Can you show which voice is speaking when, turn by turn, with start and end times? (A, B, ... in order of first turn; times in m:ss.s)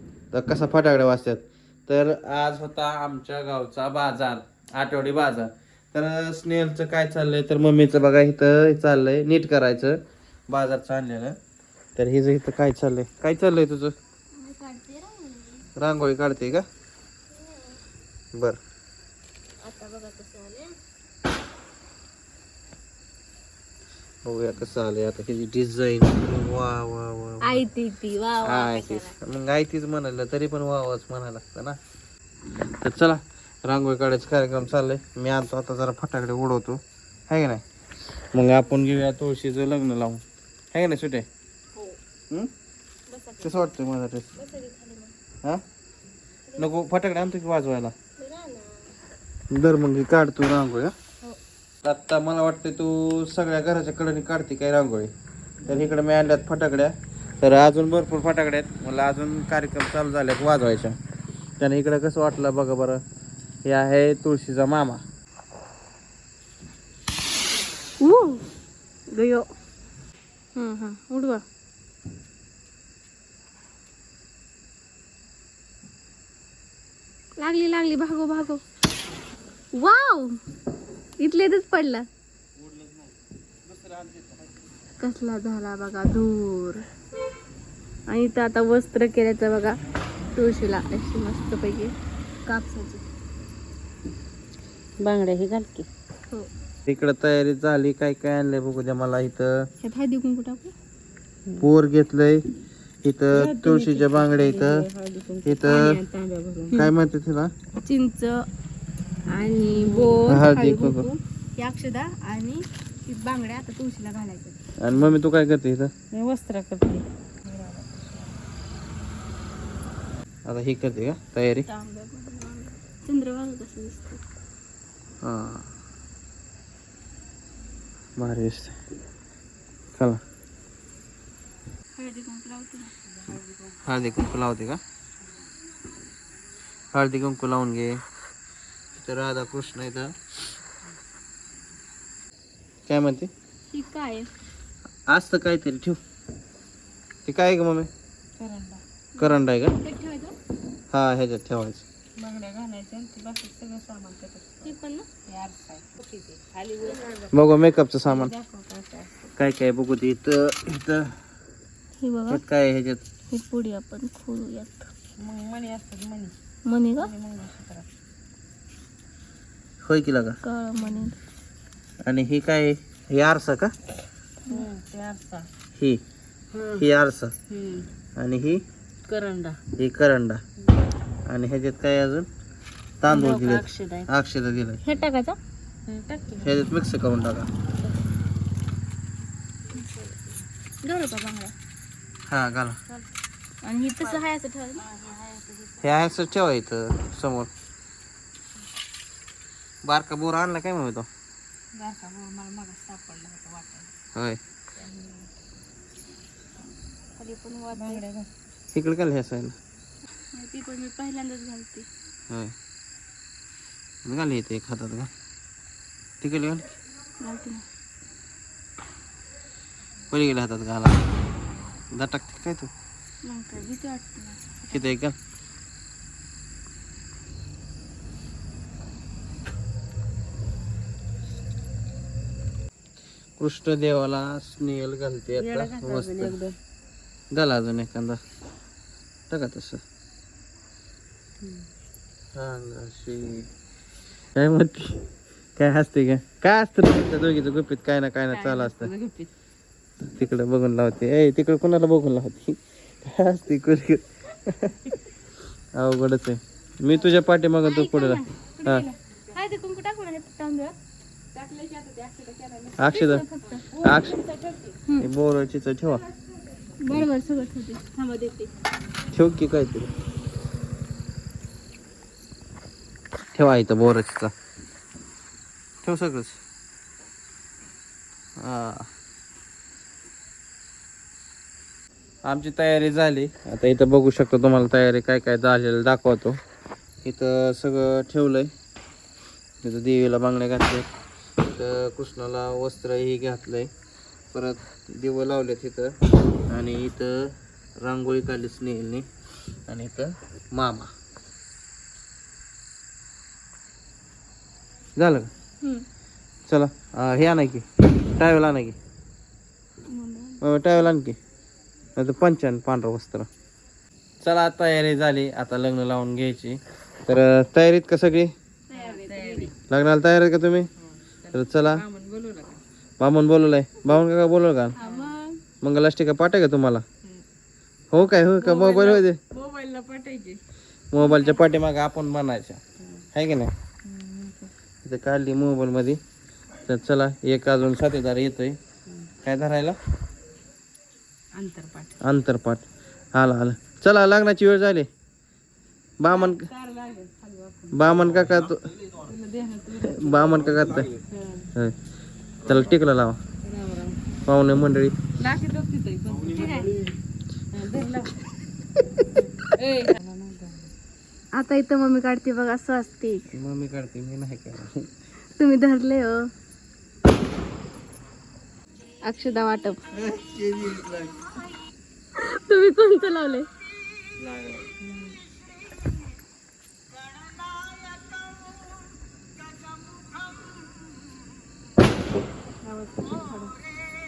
0:00.3-0:11.4 A
0:12.0-0:13.9 A
0:14.3-0:15.7 B
0:15.8-0:16.6 A
0:17.3-0:17.8 B
0:19.6-0:20.8 B
0:24.2-0:27.6 A
0:27.4-0:29.1 B
0:28.4-0:31.8 A
0:32.8-0:37.6 A
0:38.3-0:41.3 A
0:43.1-0:43.7 B
0:43.4-0:44.3 A
0:44.4-0:45.1 B
0:46.6-0:47.9 A
0:48.2-0:48.8 B
0:49.5-0:50.9 A
0:51.8-0:55.1 A
0:55.6-0:55.9 B
0:55.6-1:01.0 A
1:01.6-1:03.0 A
1:03.6-1:05.0 A
1:08.0-1:08.4 B
1:09.1-1:09.5 B
1:10.6-1:11.4 B
1:17.4-1:18.6 B
1:19.7-1:20.4 B
1:21.2-1:22.1 B
1:25.0-1:26.8 B
1:28.1-1:29.8 B
1:30.4-1:31.9 B
1:32.4-1:33.0 B
1:35.0-1:35.9 C
1:36.9-1:39.6 A
1:39.8-1:40.7 B
1:41.6-1:42.4 A
1:43.0-1:44.8 A
1:43.3-1:46.8 C
1:45.4-1:46.0 A
1:46.7-1:47.5 A
1:47.8-1:48.5 B
1:49.3-1:54.6 B
1:49.7-1:50.3 C
1:50.3-1:51.0 A
1:54.8-1:55.9 A
1:56.1-1:58.3 C
2:00.4-2:01.7 A
2:01.6-2:04.2 B
2:05.2-2:05.7 A
2:08.2-2:08.8 A
2:12.0-2:12.9 B
2:13.1-2:13.8 C
2:13.8-2:14.8 A
2:16.9-2:18.0 A
2:18.9-2:20.1 A
2:22.9-2:23.3 A
2:23.7-2:24.3 B
2:25.1-2:26.0 A
2:27.2-2:27.9 A
2:28.4-2:28.8 C
2:29.1-2:30.3 B
2:29.2-2:29.7 A
2:30.9-2:31.8 A
2:32.2-2:34.7 C
2:34.6-2:35.1 B
2:35.2-2:37.3 C
2:37.3-2:38.3 A
2:38.0-2:39.2 C
2:39.4-2:41.2 A
2:42.0-2:42.4 B
2:42.3-2:43.0 A
2:43.3-2:44.9 B
2:45.2-2:46.4 C
2:46.6-2:47.1 B
2:47.0-2:47.9 C
2:49.8-2:50.4 A
2:50.4-2:51.2 B
2:50.8-2:51.0 C
2:52.0-2:53.7 A
2:54.5-2:55.5 C
2:55.8-2:56.0 A
2:56.5-2:56.8 C
2:56.7-2:57.3 A
2:57.5-2:57.9 C
2:58.2-2:58.6 A
2:59.1-2:59.6 C
2:59.8-3:00.4 A
3:01.2-3:02.3 A
3:03.0-3:04.8 A
3:03.1-3:04.1 C
3:04.8-3:05.4 B
3:05.9-3:06.5 C
3:06.4-3:07.5 A
3:09.7-3:10.4 C
3:10.8-3:11.5 B
3:12.3-3:12.8 A
3:13.6-3:14.8 B
3:14.8-3:15.9 C
3:15.8-3:17.5 A
3:19.8-3:21.1 A
3:21.7-3:23.9 C
3:24.8-3:25.3 C
3:27.2-3:28.0 B
3:27.7-3:28.3 C
3:28.7-3:29.6 A
3:30.3-3:31.9 B
3:34.0-3:35.1 A
3:36.2-3:36.7 A
3:37.2-3:37.6 B
3:40.1-3:41.0 A
3:41.9-3:42.7 A
3:43.2-3:44.9 B
3:44.7-3:45.2 A
3:53.4-3:56.4 A
3:55.3-3:56.6 C
3:57.3-3:58.2 A
3:59.3-3:59.8 A
4:01.4-4:01.7 C
4:02.3-4:03.5 A
4:04.3-4:08.9 A
4:08.3-4:09.3 C
4:10.0-4:15.0 A
4:15.7-4:18.9 A
4:16.9-4:17.2 C
4:17.6-4:20.8 B
4:21.3-4:22.9 C
4:22.8-4:23.2 A
4:22.8-4:23.7 B
4:23.5-4:24.8 C
4:23.8-4:24.2 A
4:25.0-4:26.0 A
4:26.8-4:28.5 B
4:29.1-4:29.9 A
4:33.3-4:34.3 A
4:35.8-4:36.4 A
4:38.4-4:38.9 A
4:42.2-4:46.4 A
4:47.0-4:48.5 A
4:49.6-4:50.9 A
4:51.5-4:53.7 A
4:54.3-4:55.9 A
4:56.5-4:59.0 A
4:59.7-5:00.9 A
5:05.0-5:05.3 A
5:05.6-5:05.8 B
5:06.5-5:08.8 A
5:09.9-5:10.4 B
5:10.4-5:11.2 A
5:12.0-5:13.3 A
5:14.2-5:18.3 A
5:18.7-5:19.5 B
5:18.7-5:19.6 C
5:19.7-5:20.7 A
5:20.8-5:22.6 C
5:21.3-5:21.8 A
5:23.0-5:24.8 A
5:24.8-5:25.4 B
5:24.8-5:25.2 C
5:25.6-5:26.8 A
5:27.9-5:29.2 A
5:28.4-5:30.4 C
5:30.9-5:32.6 A
5:31.0-5:31.4 C
5:33.1-5:33.5 A
5:33.8-5:34.5 C
5:34.8-5:36.0 A
5:36.6-5:38.6 A
5:39.2-5:39.8 A
5:41.3-5:42.0 C
5:42.0-5:44.9 A
5:46.0-5:46.5 A
5:46.1-5:48.0 C
5:47.7-5:48.7 A
5:49.0-5:50.5 C
5:49.8-5:50.9 A
5:51.0-5:51.5 C
5:52.4-5:53.2 A
5:53.4-5:54.0 C
5:54.2-5:55.0 A
5:55.2-5:56.9 C
5:56.3-5:56.8 B
5:57.5-5:58.2 C
5:59.1-6:00.7 C
6:01.3-6:03.3 B
6:03.3-6:04.9 A
6:05.4-6:06.2 B
6:09.0-6:09.8 B
6:09.9-6:11.2 A
6:12.2-6:13.5 B
6:14.2-6:14.6 A
6:14.8-6:15.1 C
6:22.6-6:23.5 C